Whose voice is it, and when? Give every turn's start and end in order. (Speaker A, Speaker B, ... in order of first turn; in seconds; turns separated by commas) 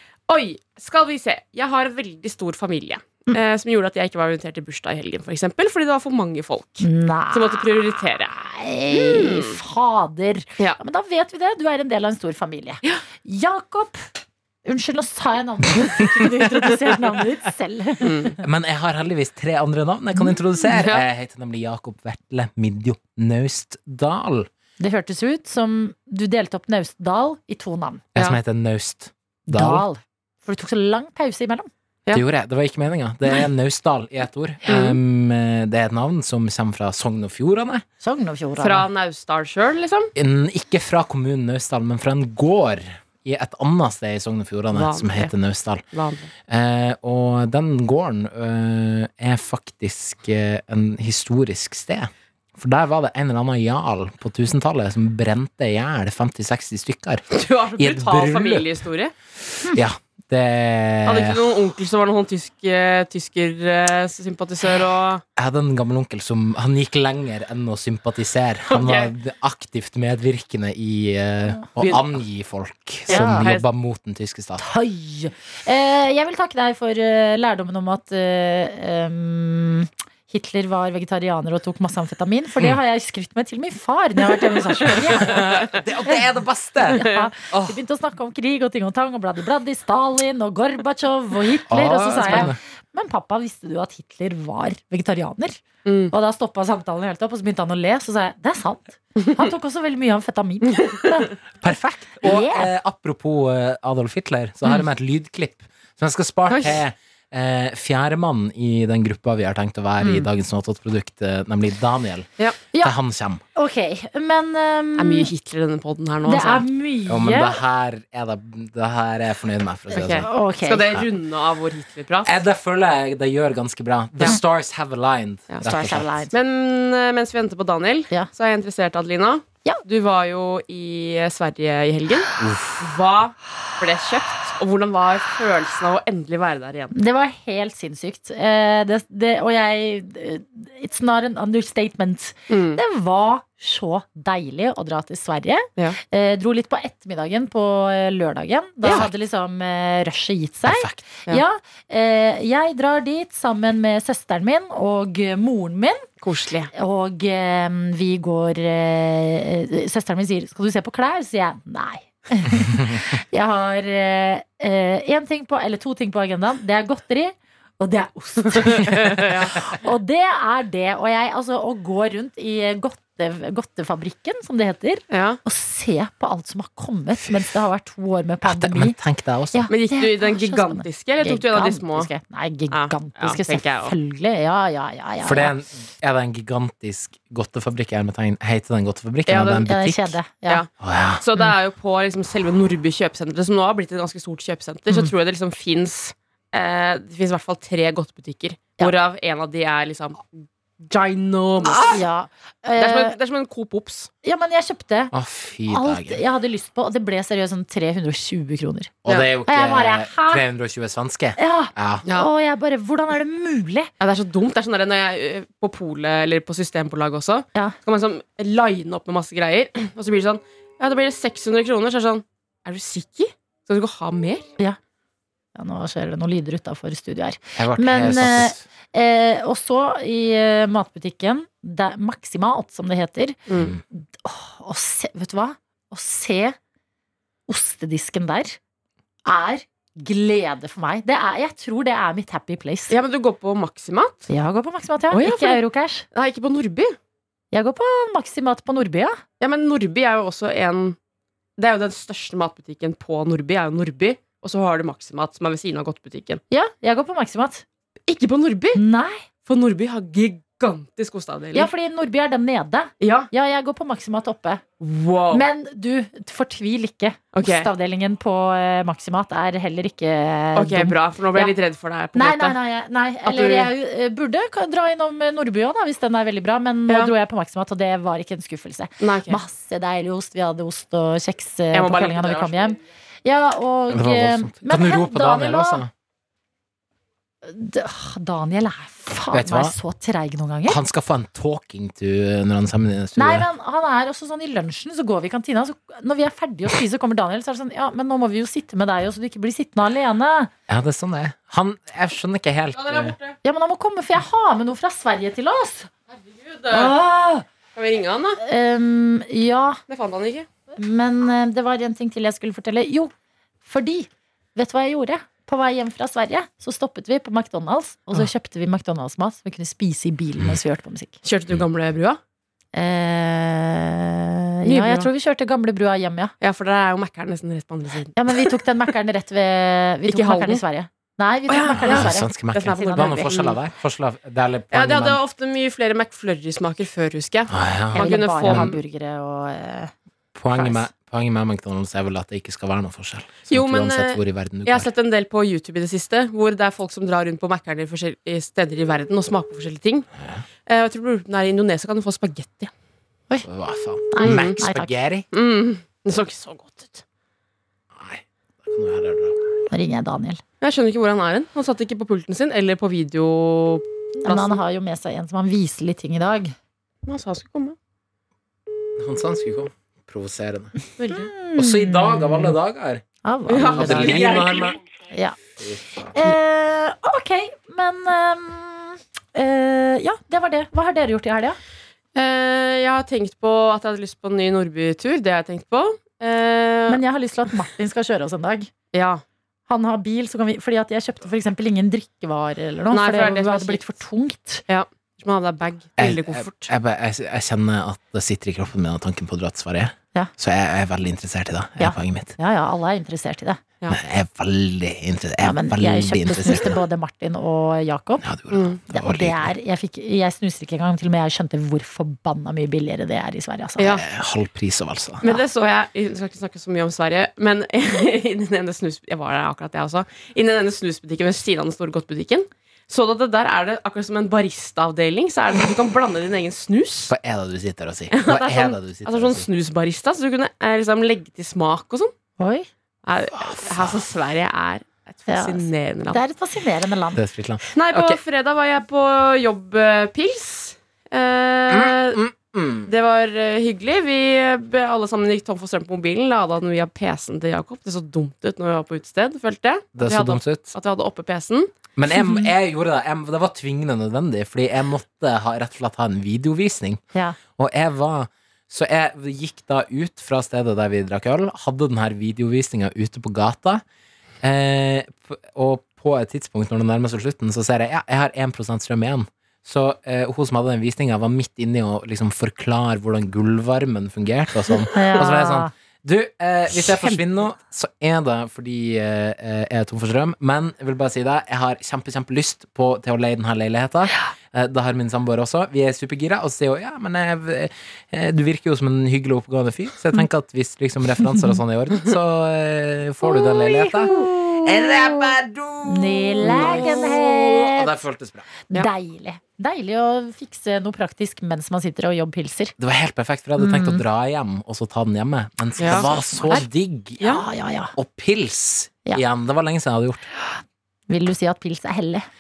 Speaker A: 0.3-8.3, Speaker B: 6.8-14.1, Speaker A: 8.9-9.6, Speaker B: 14.7-18.3, Speaker A: 18.0-18.4, Speaker C: 18.4-24.5, Speaker A: 20.7-21.0, Speaker B: 24.8-28.1, Speaker C: 28.1-29.9, Speaker B: 29.5-31.7, Speaker C: 32.1-37.8, Speaker A: 34.7-35.0, Speaker B: 38.0-38.9, Speaker A: 38.6-40.1, Speaker C: 40.2-45.9, Speaker A: 44.7-45.3, Speaker A: 45.9-46.3, Speaker C: 46.5-57.2, Speaker A: 57.3-59.1, Speaker C: 57.8-58.7, Speaker C: 59.7-61.4, Speaker A: 61.0-65.2, Speaker C: 65.4-74.6, Speaker A: 68.7-69.1, Speaker A: 71.8-72.2, Speaker A: 73.1-73.7, Speaker B: 73.1-73.5, Speaker B: 74.6-85.4, Speaker C: 85.0-87.8, Speaker B: 86.9-101.4, Speaker C: 91.7-92.6, Speaker A: 92.2-92.5, Speaker A: 95.8-96.1, Speaker C: 101.6-112.3, Speaker B: 102.2-102.7, Speaker A: 106.5-106.8, Speaker B: 110.0-110.3, Speaker C: 112.8-113.4, Speaker B: 113.5-115.3, Speaker A: 115.0-116.7, Speaker B: 116.2-117.6, Speaker C: 117.1-120.3, Speaker B: 119.9-120.9, Speaker A: 119.9-122.4, Speaker C: 122.2-126.3, Speaker B: 125.6-126.3, Speaker A: 126.3-136.9, Speaker C: 132.4-132.8, Speaker B: 136.9-156.1, Speaker A: 142.5-142.8, Speaker C: 150.7-151.0, Speaker A: 156.2-156.7, Speaker B: 156.7-179.0, Speaker A: 168.9-169.6, Speaker A: 175.1-175.4, Speaker C: 178.4-179.7, Speaker B: 179.5-185.6, Speaker A: 179.7-182.1, Speaker A: 182.7-183.9, Speaker C: 185.2-190.2, Speaker A: 189.2-189.8, Speaker B: 189.7-190.6, Speaker C: 190.8-191.2, Speaker A: 191.2-200.3, Speaker A: 200.8-202.0, Speaker B: 201.6-203.2, Speaker A: 202.8-204.1, Speaker B: 204.2-205.1, Speaker C: 205.1-206.2, Speaker B: 205.7-208.9, Speaker C: 209.1-212.1, Speaker B: 209.4-210.4, Speaker B: 211.4-213.9, Speaker A: 214.0-224.5, Speaker B: 225.6-236.6, Speaker C: 227.6-228.6, Speaker A: 233.5-233.8, Speaker B: 237.5-238.6, Speaker B: 239.2-243.0, Speaker A: 242.9-244.3, Speaker B: 244.3-246.1, Speaker A: 245.1-246.9, Speaker B: 247.5-249.2, Speaker A: 249.4-251.0, Speaker A: 251.6-256.4, Speaker B: 256.5-257.6, Speaker A: 258.1-258.8, Speaker B: 258.7-259.2, Speaker A: 259.4-261.7, Speaker B: 261.5-264.6, Speaker A: 263.0-263.3, Speaker A: 264.8-265.5, Speaker B: 265.3-271.6, Speaker A: 267.3-267.7, Speaker A: 270.5-272.6, Speaker B: 272.1-285.8, Speaker A: 273.2-273.7, Speaker A: 279.0-279.4, Speaker A: 281.7-282.8, Speaker C: 283.9-285.9, Speaker B: 287.4-290.8, Speaker C: 289.3-289.8, Speaker C: 290.7-293.5, Speaker B: 293.1-300.5, Speaker C: 300.7-303.1, Speaker A: 302.7-303.4, Speaker B: 303.4-305.9, Speaker A: 306.1-307.0, Speaker B: 306.7-307.4, Speaker A: 307.8-308.4, Speaker B: 308.4-309.8, Speaker A: 309.9-310.5, Speaker B: 310.8-313.1, Speaker B: 313.6-321.2, Speaker A: 321.2-322.2, Speaker B: 322.7-326.3, Speaker A: 324.6-325.1, Speaker A: 326.4-328.5, Speaker B: 328.1-333.4, Speaker A: 330.0-330.6, Speaker A: 331.5-333.6, Speaker C: 331.7-335.2, Speaker A: 334.7-338.8, Speaker C: 337.5-338.8, Speaker B: 337.9-339.9, Speaker C: 340.4-344.9, Speaker B: 340.5-340.9, Speaker A: 343.5-350.1, Speaker A: 350.6-352.7, Speaker C: 353.4-355.2, Speaker B: 354.1-354.9, Speaker A: 354.2-354.6, Speaker A: 355.3-357.0, Speaker C: 357.9-359.6, Speaker B: 359.7-360.4, Speaker A: 360.6-364.6, Speaker B: 364.2-366.5, Speaker A: 367.1-367.8, Speaker C: 369.0-370.9, Speaker A: 371.0-371.3, Speaker B: 371.1-372.6, Speaker C: 371.5-373.0, Speaker B: 373.2-374.4, Speaker A: 373.5-374.8, Speaker C: 373.6-374.8, Speaker B: 375.1-375.4, Speaker C: 375.6-376.2, Speaker B: 376.1-381.6, Speaker A: 382.1-387.0, Speaker B: 386.9-388.7, Speaker A: 388.9-389.2, Speaker B: 389.7-394.6, Speaker A: 392.9-393.9, Speaker A: 394.7-396.7, Speaker C: 396.0-402.3, Speaker B: 401.8-403.6, Speaker C: 403.9-406.8, Speaker B: 405.4-408.2, Speaker C: 408.2-409.5, Speaker A: 408.5-408.8, Speaker B: 408.9-413.9, Speaker A: 413.8-414.0, Speaker C: 413.9-415.3, Speaker A: 415.2-427.1, Speaker C: 427.1-429.4, Speaker A: 428.1-432.1, Speaker B: 432.4-432.7, Speaker A: 433.1-436.2, Speaker C: 433.3-434.0, Speaker B: 435.3-437.2, Speaker C: 437.1-438.1, Speaker A: 437.8-442.2, Speaker C: 441.7-442.9, Speaker A: 442.8-451.7, Speaker C: 449.9-450.7, Speaker C: 451.9-457.0, Speaker B: 452.1-452.5, Speaker C: 457.6-463.8, Speaker C: 464.4-498.6, Speaker B: 474.9-475.7, Speaker B: 476.9-477.2, Speaker B: 493.2-495.0, Speaker B: 495.9-497.9, Speaker A: 496.4-497.1, Speaker B: 498.7-502.8, Speaker C: 502.8-507.4, Speaker B: 503.6-504.0, Speaker A: 505.8-506.7, Speaker B: 505.8-506.6, Speaker A: 507.2-507.5, Speaker B: 507.3-507.9, Speaker C: 507.9-510.3, Speaker B: 511.1-512.2